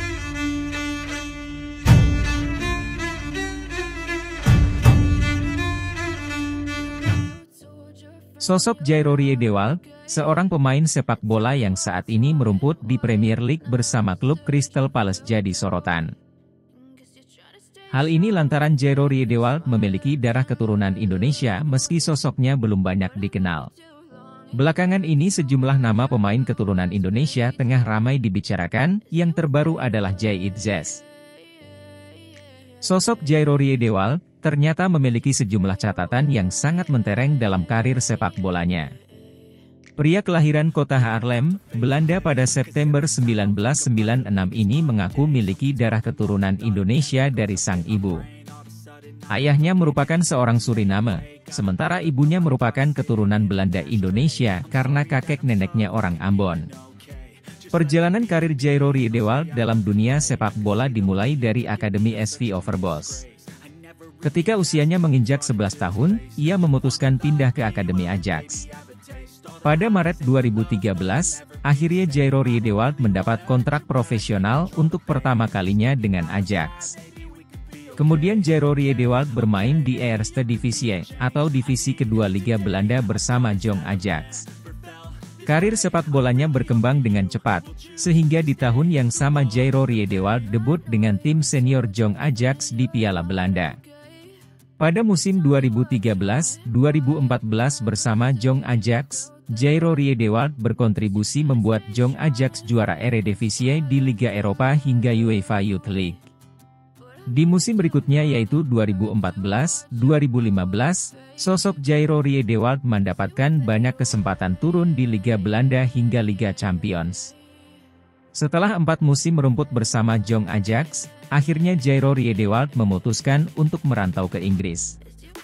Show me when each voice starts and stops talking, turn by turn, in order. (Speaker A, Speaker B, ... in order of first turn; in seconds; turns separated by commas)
Speaker A: 8.4-16.1, Speaker A: 17.9-23.7, Speaker A: 24.5-31.0, Speaker A: 32.8-38.9, Speaker A: 40.0-48.3, Speaker A: 49.3-56.7, Speaker A: 57.7-63.2, Speaker A: 64.2-68.7, Speaker A: 69.6-77.0, Speaker A: 78.0-84.5, Speaker A: 85.4-93.8, Speaker A: 94.8-106.2, Speaker A: 107.3-117.3, Speaker A: 118.3-125.0